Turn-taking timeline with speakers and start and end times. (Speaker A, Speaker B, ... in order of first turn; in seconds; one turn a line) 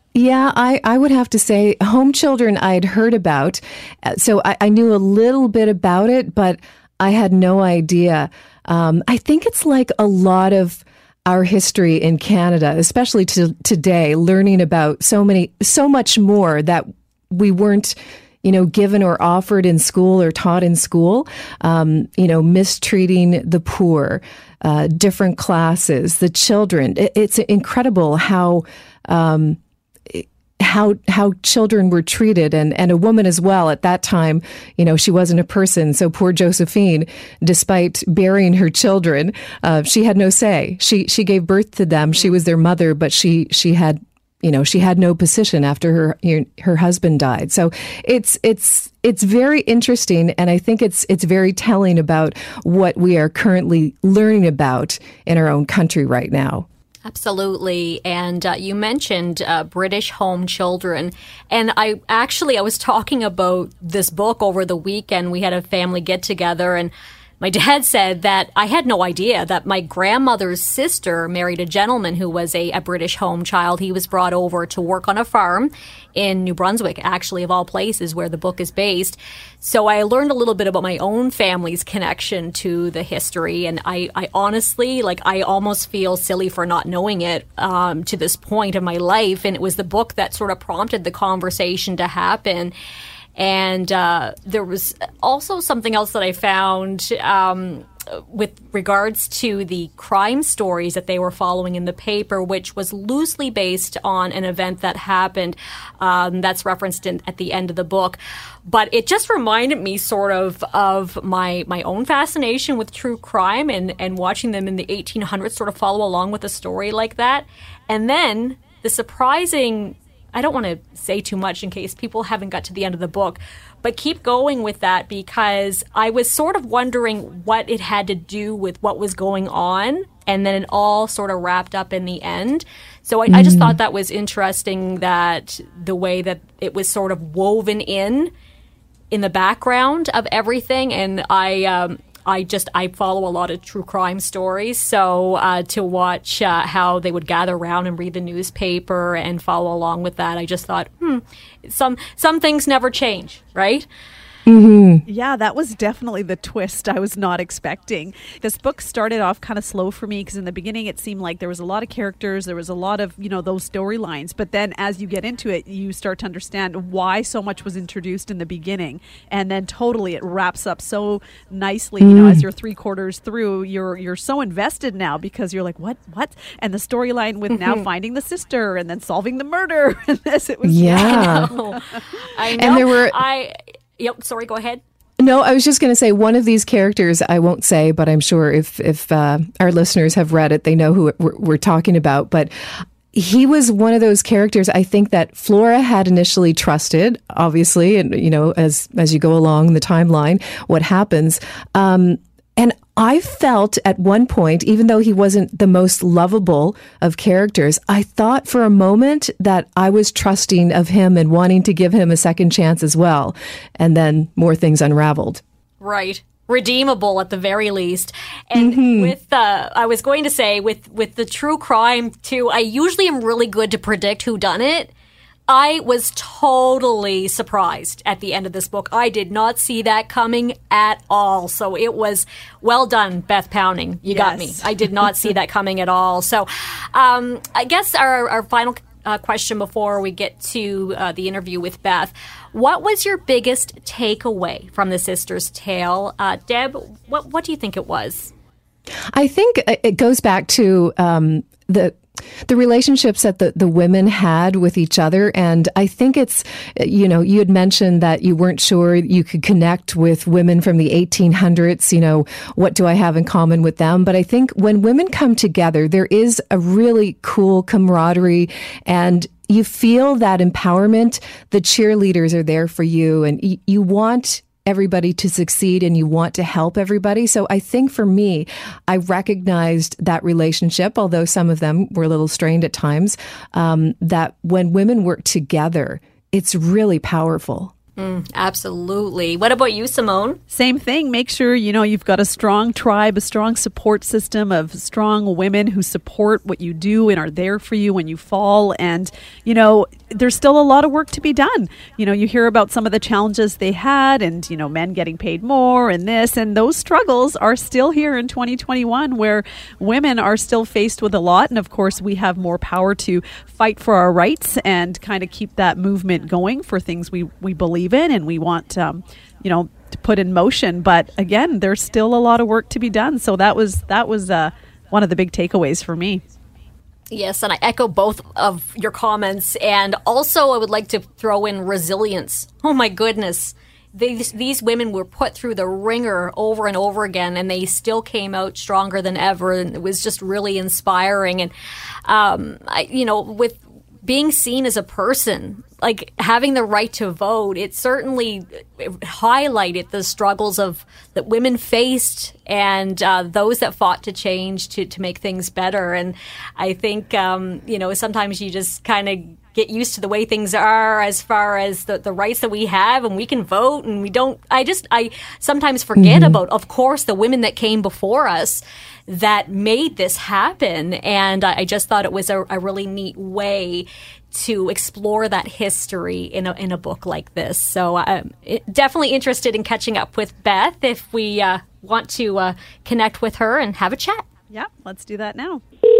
Speaker A: 0.1-56.6
Speaker B: 57.0-92.7
Speaker B: 93.4-138.3
Speaker A: 133.3-133.8
Speaker B: 139.1-153.9
Speaker A: 154.4-155.0
Speaker C: 155.1-181.8
Speaker A: 172.0-172.4
Speaker B: 177.5-177.9
Speaker A: 180.6-181.5
Speaker B: 180.9-184.8
Speaker A: 182.6-183.2
Speaker A: 185.2-192.5
Speaker A: 193.1-215.4
Speaker B: 215.8-224.9
Speaker A: 218.5-219.1
Speaker B: 225.5-248.3
Speaker C: 234.1-234.7
Speaker A: 249.1-287.7
Speaker B: 288.0-290.4
Speaker C: 290.5-326.2
Speaker B: 327.1-341.5
Speaker B: 342.1-384.3
Speaker A: 366.0-366.4
Speaker C: 384.5-385.6